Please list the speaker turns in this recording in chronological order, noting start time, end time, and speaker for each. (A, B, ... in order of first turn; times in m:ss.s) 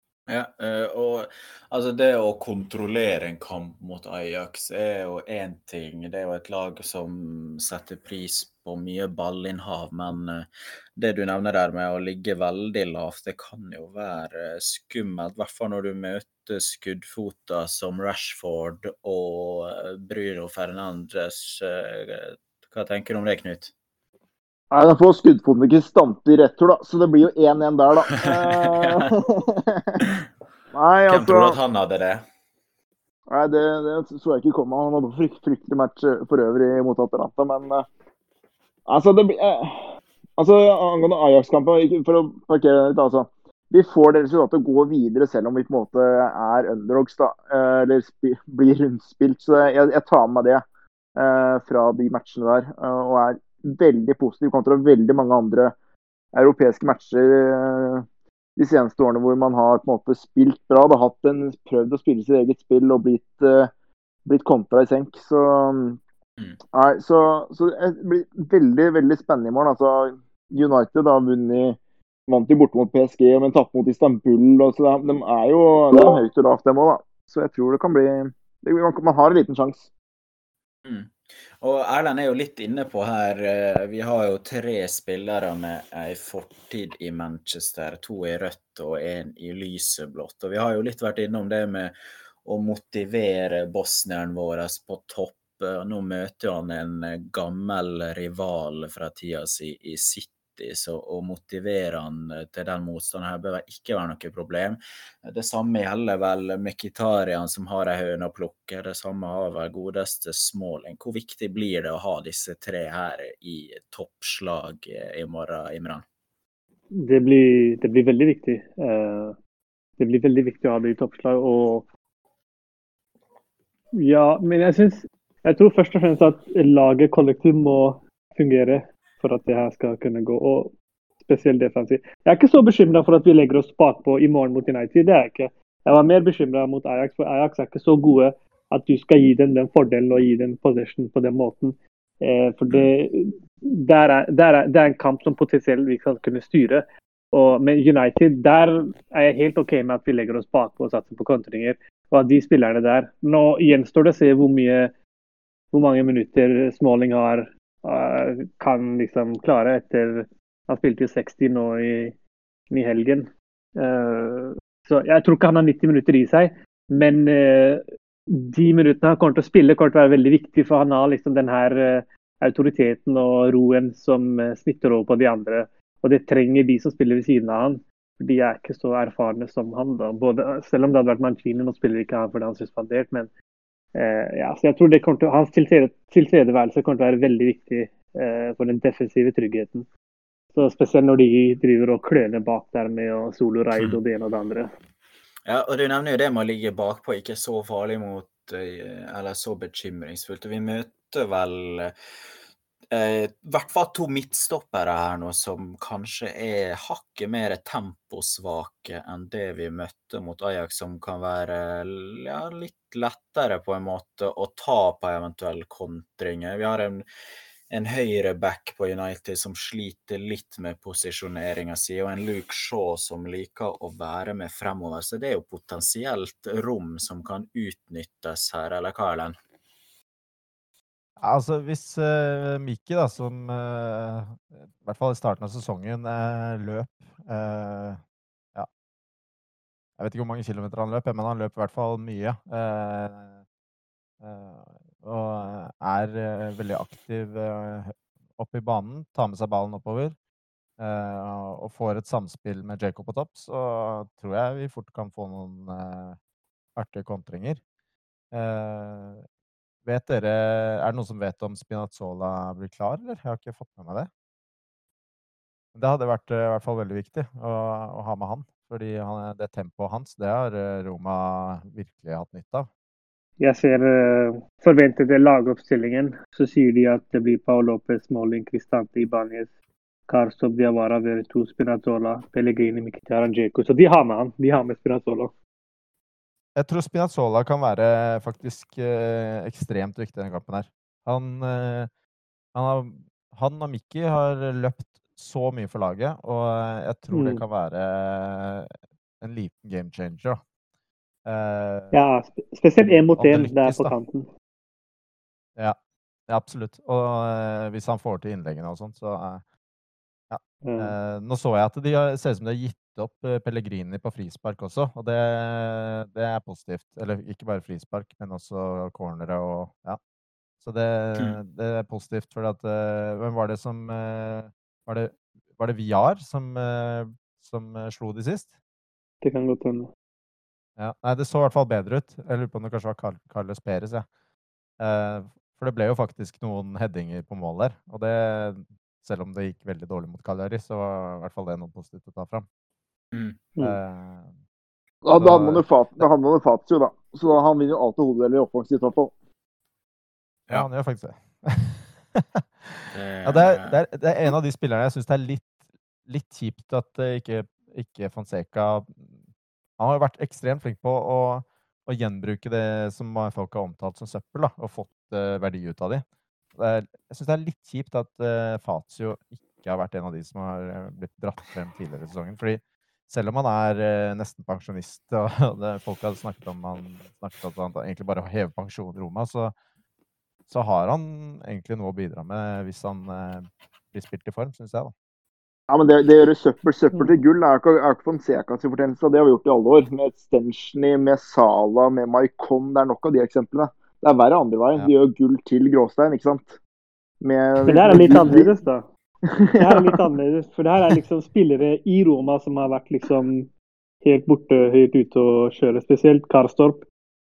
0:00.3-0:23.7 A
0:24.7-0:30.1 B
0:28.3-0:29.1 A
0:30.7-0:31.6 B
0:31.1-0:32.2 A
0:33.3-0:37.8 B
0:38.9-0:50.6 B
0:51.2-0:55.7 B
0:56.3-0:58.0 B
0:58.6-1:03.7 B
1:04.3-1:06.0 B
1:06.7-1:19.9 B
1:20.8-1:56.0 A
1:56.9-1:59.4 C
2:00.0-2:01.9 C
2:04.0-2:34.9 C
2:35.7-2:42.2 C
2:42.7-3:03.3 C
3:04.0-3:09.9 C
3:10.5-3:14.7 C
3:15.5-3:21.9 A
3:22.9-3:37.0 A
3:37.7-3:49.4 A
3:51.2-3:58.0 D
4:00.0-4:03.4 D
4:04.2-4:10.2 D
4:10.8-4:16.2 D
4:16.8-4:17.6 D
4:18.3-4:19.2 D
4:19.8-4:24.1 D
4:25.8-4:32.7 D
4:33.4-4:39.6 C
4:40.1-4:45.3 C
4:46.6-4:51.9 D
4:52.5-5:00.4 D
4:57.1-4:57.4 C
5:01.2-5:01.9 D
5:01.9-5:04.3 C
5:02.8-5:03.9 D
5:06.3-5:09.4 D
5:10.3-5:20.0 D
5:10.6-5:11.0 C
5:20.6-5:28.5 D
5:29.2-5:29.9 C
5:30.8-5:34.1 D
5:34.8-5:42.5 D
5:43.1-5:43.4 A
5:43.6-5:44.3 D
5:45.0-5:49.1 B
5:45.2-5:46.0 D
5:50.5-5:55.5 D
5:52.9-5:54.3 A
5:56.1-5:59.1 D
5:59.8-6:06.0 D
6:06.6-6:19.6 D
6:20.5-6:24.9 D
6:25.7-6:36.6 B
6:37.2-6:38.5 B
6:37.7-6:38.8 C
6:39.3-6:40.0 B
6:39.6-6:43.5 C
6:44.0-6:46.9 C